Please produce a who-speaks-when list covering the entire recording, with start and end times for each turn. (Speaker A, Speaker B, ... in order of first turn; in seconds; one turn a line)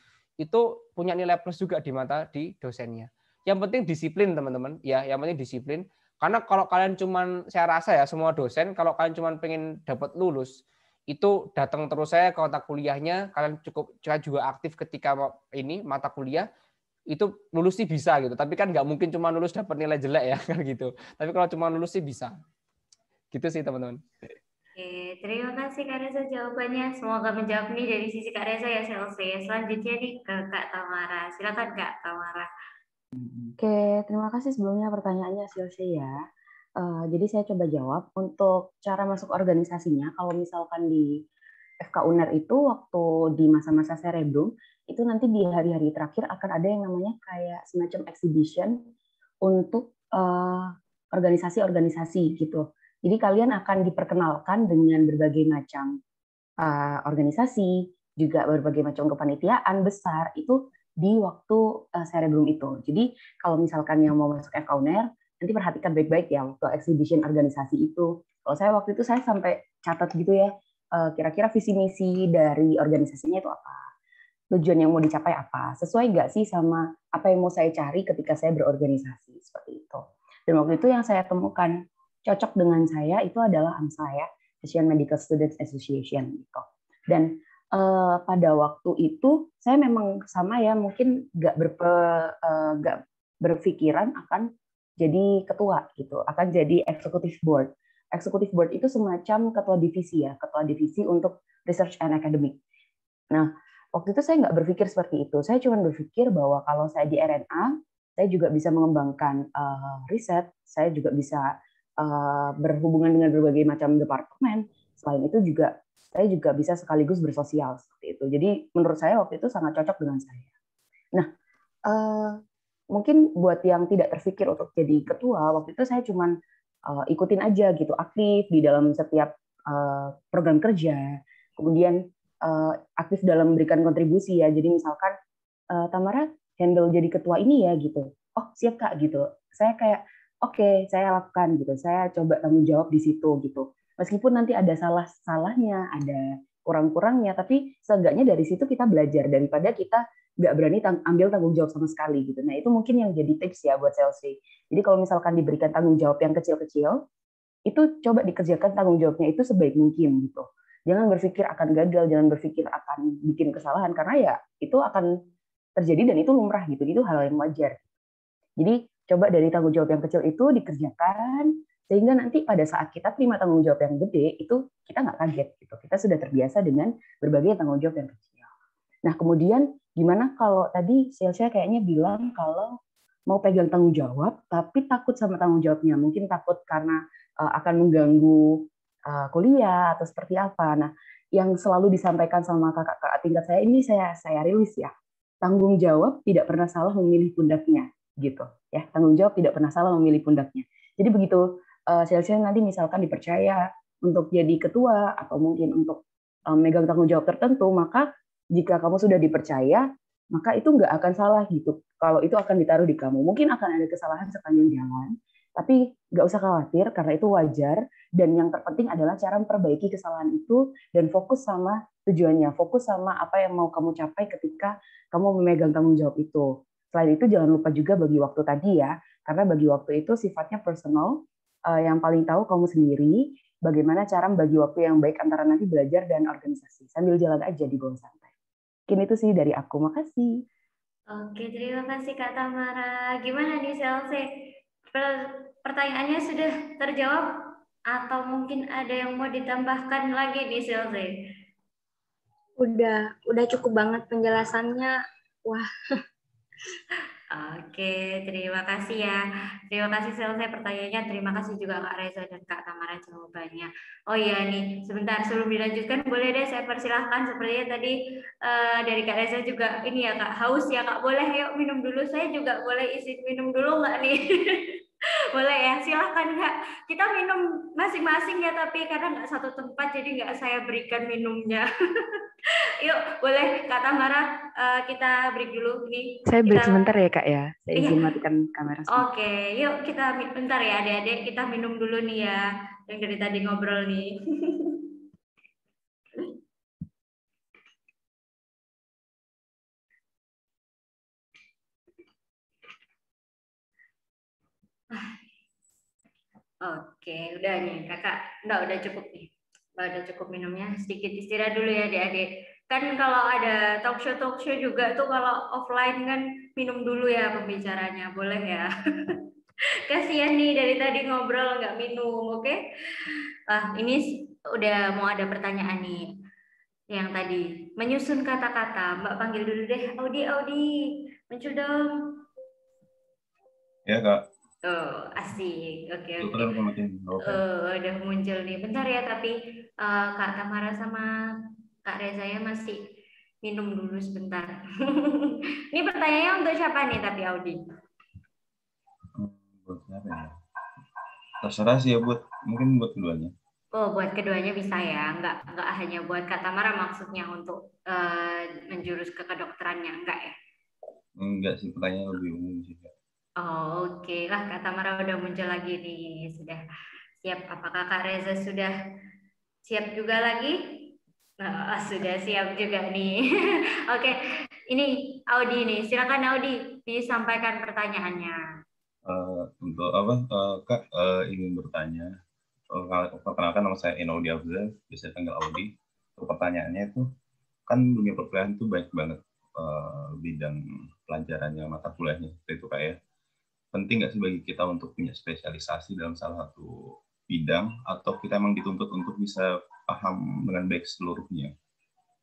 Speaker A: 0.4-10.5
Speaker A: 11.1-16.5
Speaker A: 17.1-22.3
Speaker A: 23.3-24.0
Speaker B: 24.8-32.5
Speaker C: 33.2-36.2
Speaker C: 36.8-41.2
Speaker C: 41.8-48.8
Speaker C: 49.4-56.0
Speaker C: 56.6-73.9
Speaker C: 74.5-94.5
Speaker C: 95.0-102.6
Speaker C: 103.3-111.5
Speaker C: 112.0-120.5
Speaker C: 121.9-122.4
Speaker C: 122.9-126.3
Speaker C: 126.9-135.2
Speaker C: 135.7-157.0
Speaker C: 157.7-165.1
Speaker C: 165.8-167.8
Speaker C: 168.6-178.5
Speaker C: 179.1-238.3
Speaker C: 238.9-240.4
Speaker B: 241.1-244.2
Speaker B: 244.9-247.3
Speaker B: 247.9-251.1
Speaker D: 252.6-254.9
Speaker B: 257.3-274.8
Speaker B: 275.4-282.2
Speaker B: 282.8-287.0
Speaker C: 286.3-289.1
Speaker B: 287.8-288.1
Speaker B: 288.9-294.9
Speaker B: 304.9-305.2
Speaker B: 306.6-319.2
Speaker B: 319.9-326.1
Speaker B: 326.9-330.7
Speaker B: 331.3-331.9
Speaker E: 333.9-334.2
Speaker B: 334.6-336.5
Speaker E: 336.2-337.4
Speaker B: 337.2-341.1
Speaker B: 341.9-342.8
Speaker B: 343.4-347.6
Speaker E: 349.1-350.3
Speaker E: 351.4-353.3
Speaker B: 353.8-360.4
Speaker E: 361.2-362.9
Speaker B: 363.4-366.6
Speaker B: 367.2-368.7
Speaker B: 369.7-370.6
Speaker B: 371.4-374.2
Speaker B: 374.7-378.4
Speaker E: 379.1-382.1
Speaker E: 382.7-387.1
Speaker E: 387.7-393.0
Speaker E: 393.7-396.7
Speaker E: 397.3-401.5